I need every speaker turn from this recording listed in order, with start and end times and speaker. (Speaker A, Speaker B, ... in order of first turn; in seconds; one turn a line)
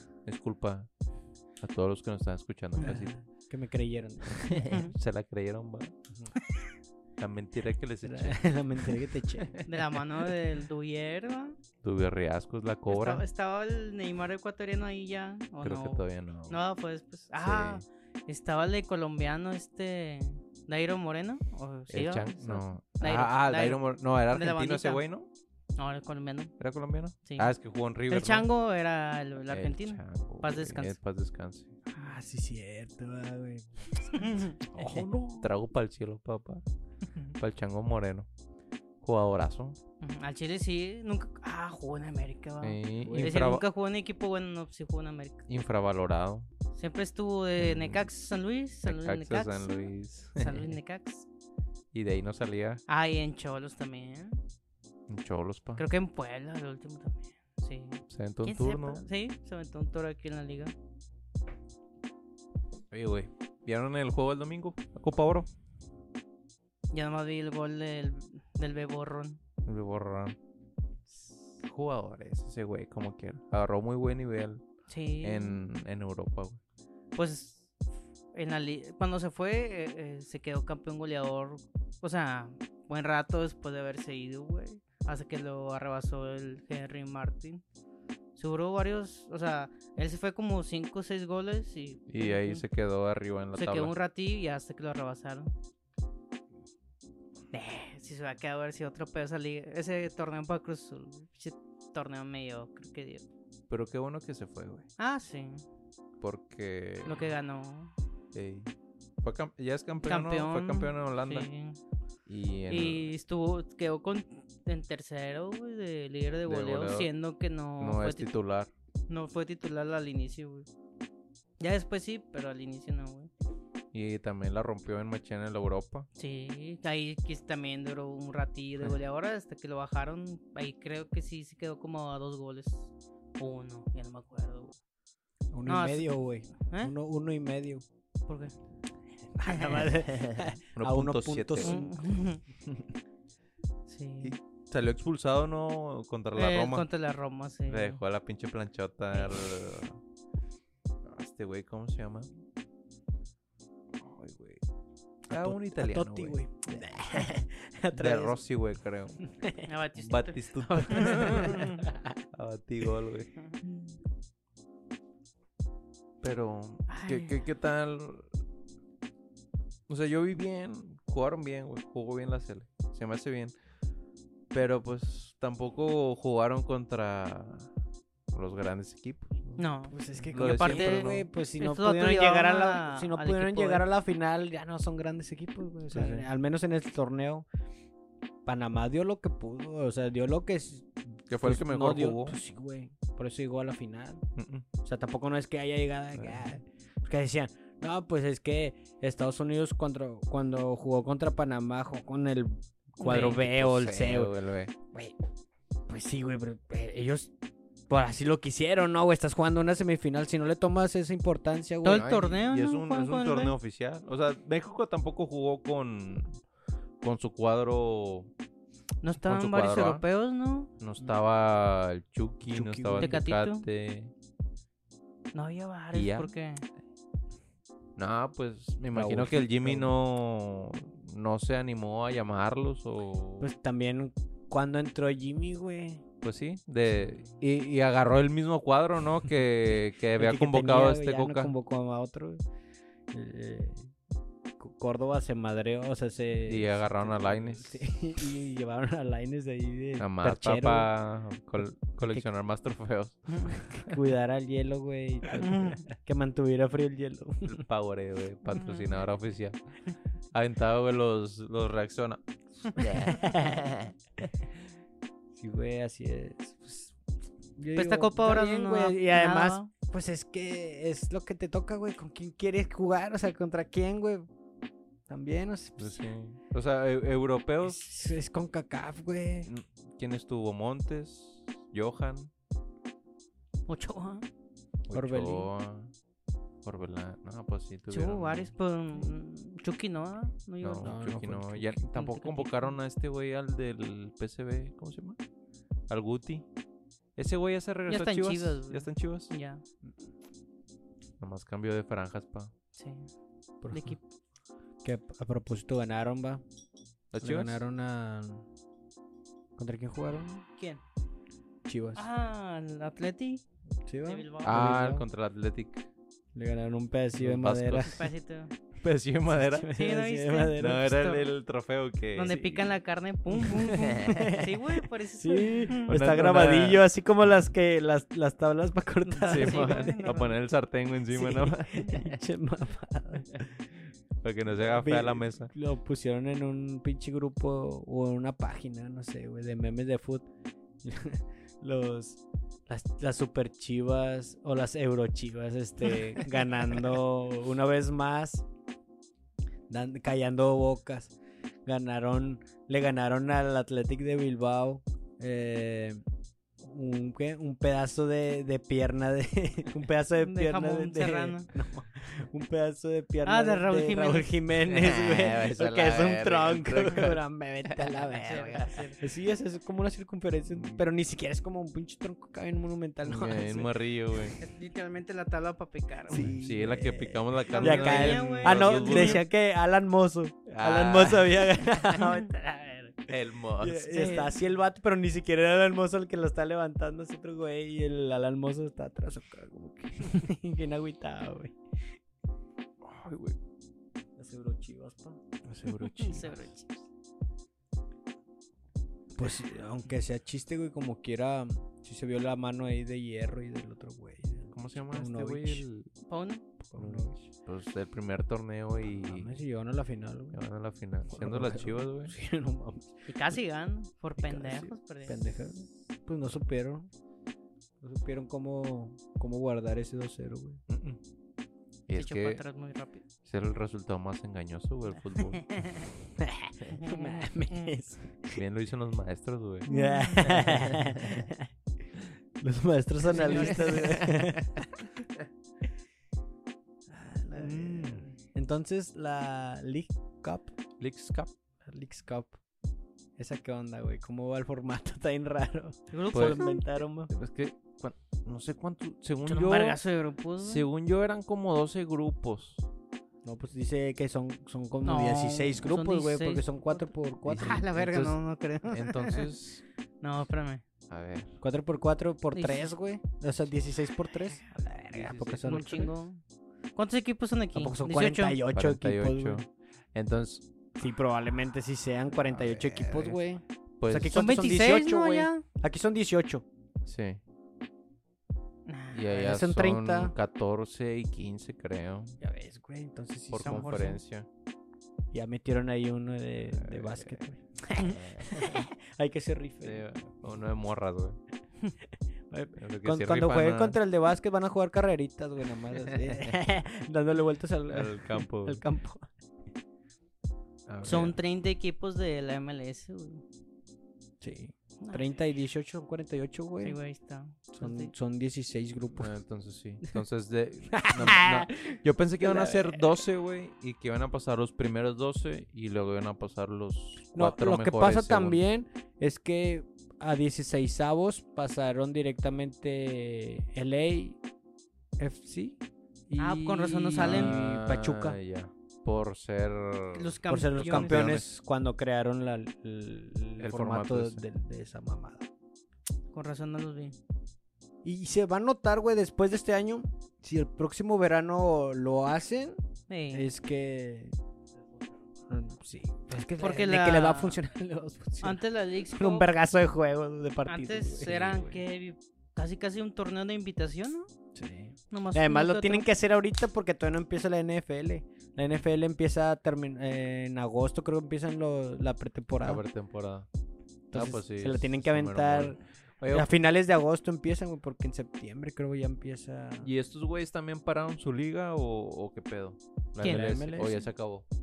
Speaker A: 0.3-0.9
Speaker A: 1.6-3.2
Speaker B: 2.8-4.7
Speaker A: 4.3-5.9
Speaker C: 4.7-4.9
Speaker A: 7.2-8.4
Speaker B: 8.0-9.6
Speaker A: 9.4-9.7
Speaker C: 9.6-11.6
Speaker A: 11.8-13.2
Speaker C: 12.9-25.0
Speaker A: 15.6-16.6
Speaker A: 17.4-17.8
Speaker A: 21.9-25.3
Speaker C: 25.8-26.6
Speaker A: 26.6-28.5
Speaker C: 27.2-27.6
Speaker C: 28.1-31.0
Speaker A: 29.5-31.7
Speaker B: 31.9-35.5
Speaker C: 34.2-34.6
Speaker A: 34.7-36.6
Speaker A: 37.4-38.3
Speaker A: 39.0-39.8
Speaker C: 40.0-45.5
Speaker A: 42.6-43.6
Speaker B: 43.0-43.5
Speaker A: 45.5-46.5
Speaker C: 46.7-51.3
Speaker A: 47.6-48.1
Speaker A: 48.9-50.8
Speaker A: 51.9-52.8
Speaker C: 52.9-54.4
Speaker A: 55.1-55.9
Speaker C: 55.8-60.7
Speaker A: 58.1-59.1
Speaker A: 62.9-65.5
Speaker C: 66.9-69.4
Speaker A: 69.6-70.4
Speaker A: 71.6-74.6
Speaker C: 74.9-75.6
Speaker A: 75.2-76.6
Speaker C: 77.1-77.7
Speaker C: 78.3-87.6
Speaker C: 88.4-92.6
Speaker A: 92.1-93.9
Speaker C: 93.5-95.5
Speaker C: 97.5-103.2
Speaker A: 103.7-104.9
Speaker C: 105.0-105.6
Speaker A: 106.2-107.3
Speaker C: 107.0-107.9
Speaker A: 108.3-111.5
Speaker C: 110.1-111.8
Speaker A: 112.3-113.1
Speaker C: 112.7-118.3
Speaker A: 116.5-117.1
Speaker A: 117.8-118.7
Speaker C: 119.1-120.7
Speaker C: 121.6-123.3
Speaker A: 123.9-126.1
Speaker C: 126.2-134.8
Speaker B: 135.5-137.8
Speaker C: 135.7-136.1
Speaker C: 136.7-136.9
Speaker C: 138.3-138.5
Speaker B: 139.3-142.1
Speaker C: 139.5-139.9
Speaker A: 140.1-141.9
Speaker C: 141.6-142.4
Speaker A: 142.6-142.9
Speaker C: 143.9-144.3
Speaker A: 144.2-146.9
Speaker C: 146.3-148.0
Speaker A: 147.7-150.0
Speaker C: 149.1-149.4
Speaker A: 151.0-152.3
Speaker A: 154.0-154.6
Speaker A: 155.3-157.4
Speaker B: 155.3-158.4
Speaker A: 157.9-159.2
Speaker B: 159.2-159.7
Speaker C: 159.7-161.8
Speaker A: 159.9-161.8
Speaker B: 161.0-162.0
Speaker A: 162.3-163.3
Speaker A: 166.2-168.3
Speaker C: 166.9-167.4
Speaker A: 169.9-173.5
Speaker A: 174.5-177.7
Speaker A: 178.3-179.6
Speaker C: 179.6-183.9
Speaker B: 179.9-187.4
Speaker A: 180.3-181.3
Speaker A: 185.9-186.3
Speaker B: 188.4-194.2
Speaker A: 191.3-192.4
Speaker A: 194.4-194.7
Speaker B: 194.8-204.3
Speaker A: 196.1-196.6
Speaker C: 203.0-203.4
Speaker A: 203.0-204.7
Speaker B: 205.9-207.3
Speaker B: 207.9-212.1
Speaker C: 211.8-213.6
Speaker A: 211.9-216.4
Speaker A: 217.0-218.3
Speaker C: 219.0-220.7
Speaker A: 219.2-220.0
Speaker A: 220.8-224.1
Speaker B: 222.5-223.2
Speaker C: 223.0-223.7
Speaker C: 225.3-226.6
Speaker A: 225.9-226.3
Speaker A: 228.0-233.5
Speaker B: 228.9-229.9
Speaker B: 233.4-236.0
Speaker A: 236.2-241.5
Speaker B: 240.2-242.4
Speaker B: 243.1-243.9
Speaker B: 244.6-250.9
Speaker A: 246.5-247.9
Speaker A: 250.0-254.0
Speaker B: 252.0-252.3
Speaker C: 253.3-253.6
Speaker B: 253.8-257.6
Speaker C: 255.4-255.8
Speaker A: 257.4-259.6
Speaker C: 258.5-259.0
Speaker A: 260.3-263.9
Speaker B: 262.8-263.7
Speaker B: 265.4-266.9
Speaker B: 267.6-274.3
Speaker C: 267.8-269.7
Speaker B: 275.1-276.0
Speaker A: 275.8-277.8
Speaker B: 277.6-279.5
Speaker A: 279.4-282.3
Speaker C: 283.7-284.2
Speaker A: 284.9-285.9
Speaker B: 284.9-285.5
Speaker A: 286.6-288.5
Speaker C: 287.9-290.9
Speaker A: 290.6-295.2
Speaker B: 290.8-291.8
Speaker C: 291.9-292.8
Speaker A: 295.9-296.4
Speaker A: 297.2-299.3
Speaker C: 297.9-299.6
Speaker A: 301.2-302.5
Speaker C: 302.8-303.1
Speaker B: 303.6-304.0
Speaker C: 303.7-304.0
Speaker B: 304.8-306.4
Speaker A: 307.1-307.6
Speaker B: 307.2-308.4
Speaker B: 309.6-310.4
Speaker C: 310.6-310.8
Speaker B: 311.7-312.1
Speaker C: 311.9-313.4
Speaker B: 313.9-315.1
Speaker C: 314.1-314.7
Speaker A: 314.4-315.9
Speaker B: 316.4-318.1
Speaker A: 317.2-318.1
Speaker C: 317.8-318.5
Speaker A: 318.8-319.7
Speaker B: 319.3-320.9
Speaker C: 319.7-321.3
Speaker A: 320.6-322.7
Speaker C: 322.1-325.9
Speaker B: 322.3-322.6
Speaker B: 323.4-330.0
Speaker A: 325.9-326.8
Speaker C: 329.1-330.4
Speaker A: 329.3-332.2
Speaker B: 331.1-333.7
Speaker A: 334.2-335.5
Speaker B: 334.5-340.3
Speaker B: 340.8-348.4
Speaker B: 349.7-351.1
Speaker B: 351.7-356.0
Speaker B: 356.6-373.8
Speaker C: 360.2-361.5
Speaker C: 363.2-364.4
Speaker A: 364.7-368.0
Speaker C: 368.1-369.0
Speaker A: 370.5-370.9
Speaker A: 373.1-374.4
Speaker C: 374.4-376.3
Speaker B: 376.1-391.6
Speaker A: 376.1-379.2
Speaker C: 377.5-379.2
Speaker A: 380.5-382.0
Speaker A: 383.1-384.1
Speaker C: 383.9-384.4
Speaker A: 392.8-393.4
Speaker B: 394.2-395.2
Speaker A: 395.5-396.5
Speaker C: 395.7-396.7
Speaker B: 399.1-405.7
Speaker A: 404.5-405.9
Speaker C: 406.1-406.4
Speaker B: 406.7-407.2
Speaker A: 406.8-409.4
Speaker B: 408.8-410.4
Speaker A: 410.3-412.1
Speaker B: 411.1-413.4
Speaker C: 413.1-415.6
Speaker B: 414.2-416.9
Speaker B: 417.8-420.6
Speaker A: 420.7-421.0
Speaker A: 421.9-422.4
Speaker C: 421.9-423.0
Speaker A: 423.2-425.6
Speaker C: 425.2-425.9
Speaker B: 426.2-428.4
Speaker C: 426.7-427.7
Speaker A: 428.3-429.7
Speaker B: 429.7-431.5
Speaker C: 429.7-430.6
Speaker A: 430.2-431.2
Speaker B: 432.4-434.8
Speaker C: 433.1-433.9
Speaker A: 433.1-434.9
Speaker B: 436.9-440.6
Speaker A: 437.3-438.1
Speaker A: 440.8-441.3
Speaker B: 441.7-442.4
Speaker B: 443.2-447.1
Speaker C: 445.9-446.6
Speaker A: 446.1-446.4
Speaker A: 447.1-449.8
Speaker C: 449.3-450.7
Speaker A: 450.4-452.7
Speaker B: 453.2-457.7
Speaker C: 454.9-459.3
Speaker A: 457.2-459.6
Speaker C: 460.0-460.6
Speaker A: 460.9-461.4
Speaker B: 461.4-465.9
Speaker C: 462.4-462.7
Speaker A: 464.9-465.9
Speaker C: 465.4-466.2
Speaker C: 466.8-468.4
Speaker B: 467.6-469.4
Speaker A: 468.5-470.5
Speaker B: 470.8-476.4
Speaker A: 472.2-473.2
Speaker A: 473.8-474.2
Speaker C: 474.1-475.4
Speaker A: 476.8-477.2
Speaker C: 478.7-479.1
Speaker A: 478.9-482.2
Speaker B: 479.1-480.1
Speaker B: 482.2-483.9
Speaker A: 483.3-484.3
Speaker C: 483.4-484.0
Speaker B: 485.1-489.9
Speaker A: 486.5-488.6
Speaker C: 487.8-488.0
Speaker A: 489.6-491.2
Speaker B: 492.3-499.1
Speaker A: 492.6-493.8
Speaker A: 495.8-496.4
Speaker A: 497.7-498.6
Speaker A: 500.7-501.2
Speaker C: 500.8-503.2
Speaker B: 504.2-506.8
Speaker C: 506.6-507.9
Speaker B: 507.5-509.2
Speaker A: 508.9-518.4
Speaker B: 510.7-513.0
Speaker B: 517.1-524.2
Speaker B: 525.0-528.2
Speaker C: 526.2-527.4
Speaker A: 527.0-531.3
Speaker C: 529.9-531.2
Speaker B: 530.3-535.3
Speaker A: 533.4-534.2
Speaker C: 536.1-537.0
Speaker B: 537.8-542.6
Speaker C: 542.9-543.3
Speaker B: 543.1-544.2
Speaker B: 545.3-551.4
Speaker C: 546.4-547.4
Speaker C: 548.2-549.3
Speaker C: 550.5-554.1
Speaker A: 551.0-551.6
Speaker B: 554.4-562.6
Speaker C: 554.9-555.9
Speaker A: 562.4-563.3
Speaker B: 563.9-565.6
Speaker A: 563.9-566.3
Speaker B: 566.1-569.7
Speaker A: 569.6-574.3
Speaker C: 573.0-573.3
Speaker B: 573.0-573.8